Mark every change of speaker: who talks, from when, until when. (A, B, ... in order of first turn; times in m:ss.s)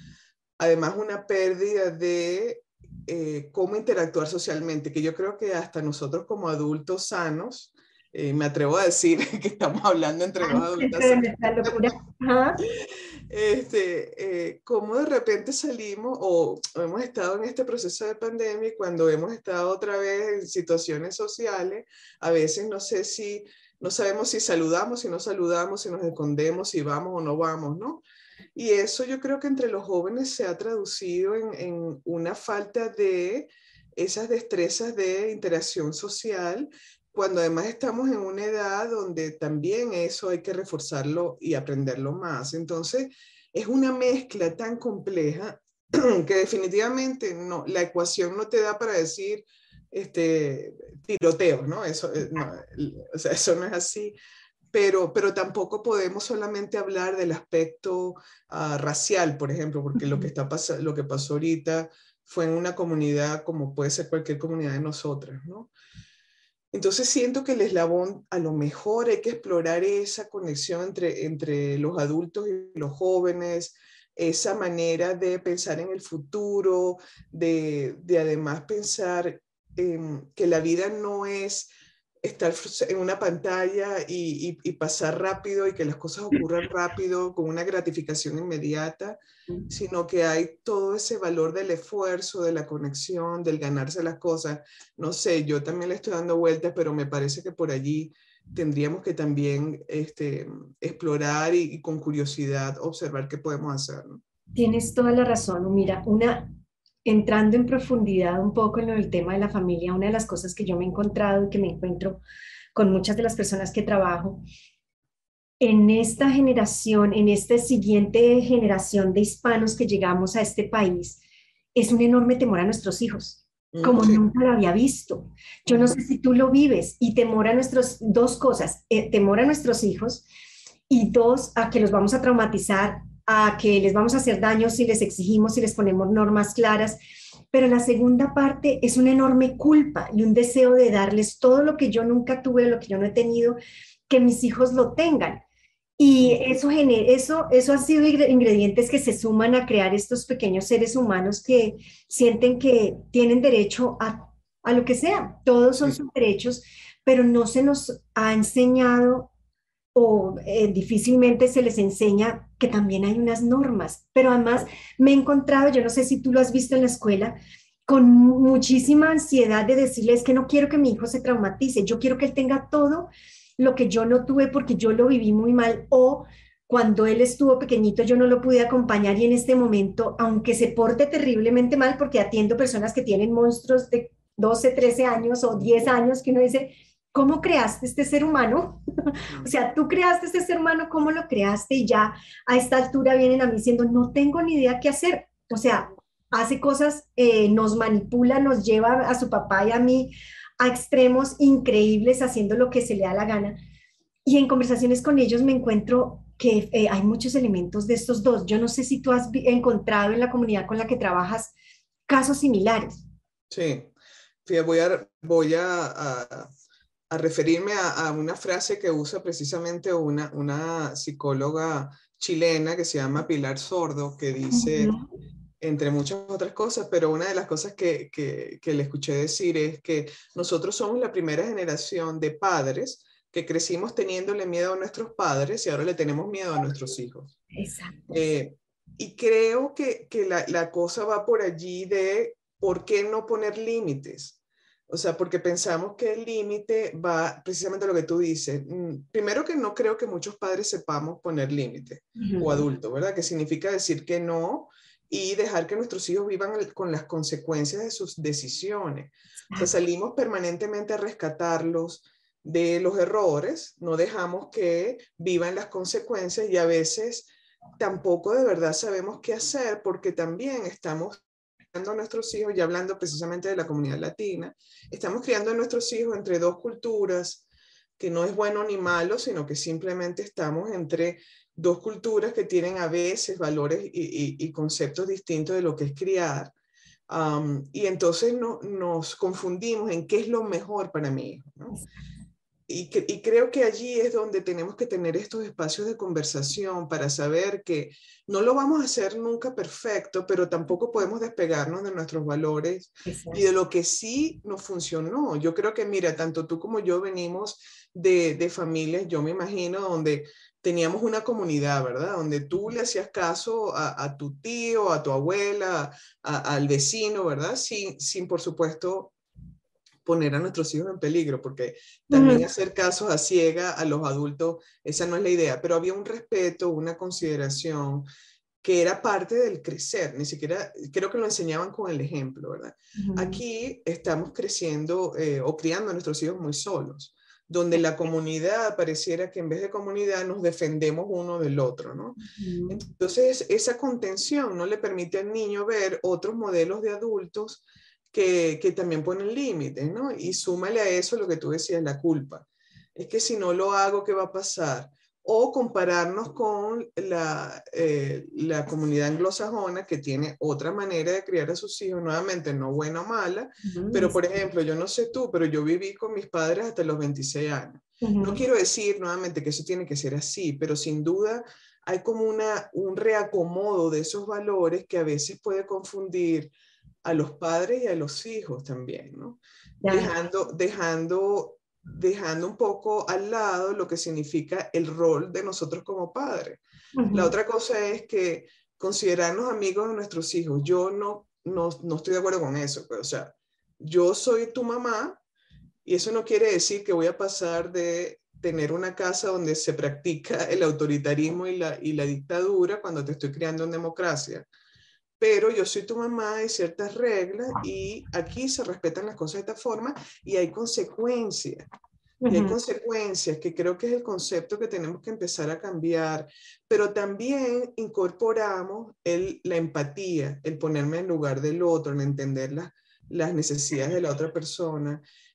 0:00.6-0:11.9 A
0:10.4-0:12.6 B
0:13.3-0:28.0 A
0:28.6-0:54.1 A
0:54.7-1:05.7 A
0:59.9-1:00.3 B
1:06.7-1:21.7 A
1:22.2-1:29.2 A
1:29.7-1:44.2 A
1:44.5-1:46.5 B
1:47.0-1:52.2 B
1:52.7-1:54.4 B
1:55.6-2:01.2 B
2:01.7-2:10.2 B
2:03.7-2:04.2 A
2:10.9-2:17.0 B
2:17.5-2:23.6 B
2:24.1-2:25.4 B
2:26.0-2:39.3 B
2:39.9-2:47.3 B
2:47.9-3:23.5 B
3:24.2-3:31.5 B
3:32.1-3:33.0 B
3:33.5-3:33.9 A
3:34.4-3:36.5 A
3:37.1-3:44.9 A
3:44.5-3:45.1 B
3:45.6-3:57.3 A
3:57.5-3:58.0 B
3:58.1-4:04.4 A
4:04.9-4:31.2 A
4:12.2-4:12.6 B
4:31.7-4:37.4 A
4:38.0-4:46.5 A
4:47.1-4:51.8 A
4:52.7-5:19.1 A
5:03.0-5:03.4 B
5:20.0-5:28.0 A
5:22.1-5:22.4 B
5:28.6-6:16.5 A
5:33.0-5:33.4 B
5:42.2-5:42.8 B
6:03.6-6:04.2 B
6:08.0-6:08.4 B
6:17.0-6:35.2 A
6:19.8-6:20.1 B
6:26.9-6:27.3 B
6:35.8-6:44.5 A
6:45.2-6:51.6 A
6:52.2-6:52.6 B
6:52.3-7:05.0 A